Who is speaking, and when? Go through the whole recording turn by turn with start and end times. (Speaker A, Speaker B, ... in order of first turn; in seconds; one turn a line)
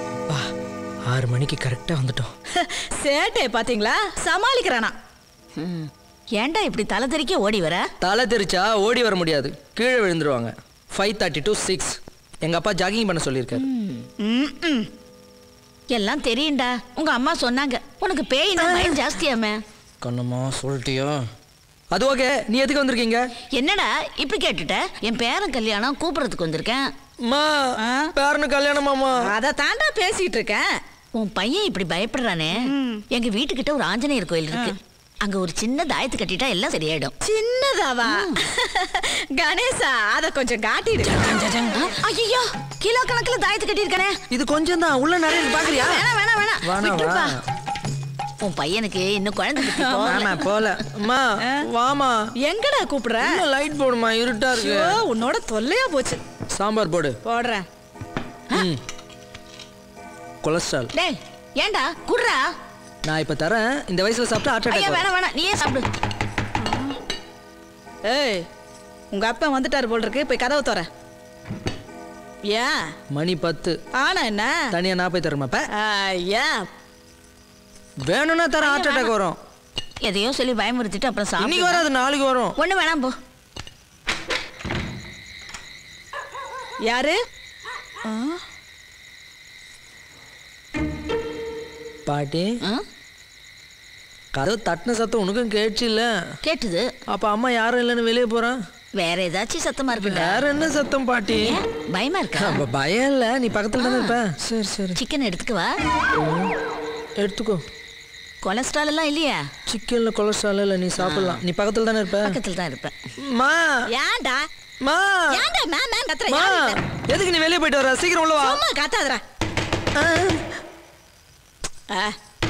Speaker A: 1.1-2.3
Speaker B: 2.6-4.9
Speaker C: 5.6-7.9
Speaker A: 8.0-13.7
Speaker C: 13.7-14.0
Speaker B: 14.2-14.9
Speaker C: 15.9-19.6
Speaker A: 18.6-19.0
Speaker A: 20.0-21.2
Speaker A: 21.9-23.2
Speaker C: 23.6-26.9
Speaker A: 27.2-27.6
Speaker B: 27.8-28.1
Speaker A: 28.1-29.3
Speaker B: 29.2-30.7
Speaker C: 31.1-37.1
Speaker B: 32.6-33.0
Speaker B: 37.2-41.2
Speaker C: 38.0-38.4
Speaker A: 41.0-41.8
Speaker C: 41.8-44.2
Speaker A: 44.3-46.1
Speaker C: 45.7-47.2
Speaker A: 46.6-47.4
Speaker C: 48.4-50.5
Speaker B: 49.7-50.1
Speaker A: 50.0-52.2
Speaker B: 52.5-53.4
Speaker A: 53.2-55.0
Speaker B: 54.5-56.2
Speaker A: 56.5-57.2
Speaker B: 57.2-57.6
Speaker A: 58.5-58.8
Speaker A: 60.4-60.9
Speaker C: 60.9-62.4
Speaker A: 63.0-65.1
Speaker C: 64.7-65.8
Speaker B: 66.6-66.9
Speaker B: 68.0-68.4
Speaker B: 69.1-70.9
Speaker B: 72.5-72.8
Speaker A: 73.1-73.8
Speaker B: 74.0-74.5
Speaker A: 74.7-75.7
Speaker B: 75.8-76.6
Speaker A: 78.1-79.4
Speaker C: 78.7-79.1
Speaker C: 80.0-81.9
Speaker A: 81.4-82.6
Speaker C: 82.6-83.1
Speaker B: 86.9-87.2
Speaker A: 92.0-92.6
Speaker A: 94.3-96.1
Speaker C: 96.4-96.9
Speaker A: 97.1-98.6
Speaker C: 99.0-100.4
Speaker A: 100.0-101.6
Speaker C: 101.4-102.6
Speaker A: 102.4-105.0
Speaker C: 103.8-104.2
Speaker C: 105.0-105.7
Speaker A: 106.2-106.5
Speaker A: 107.2-107.6
Speaker C: 108.4-109.4
Speaker A: 109.7-112.4
Speaker C: 111.0-111.4
Speaker C: 112.2-112.9
Speaker A: 113.2-113.8
Speaker B: 113.9-114.4
Speaker A: 114.8-115.4
Speaker B: 115.3-116.8
Speaker A: 116.3-118.6
Speaker B: 118.4-119.2
Speaker A: 120.0-120.4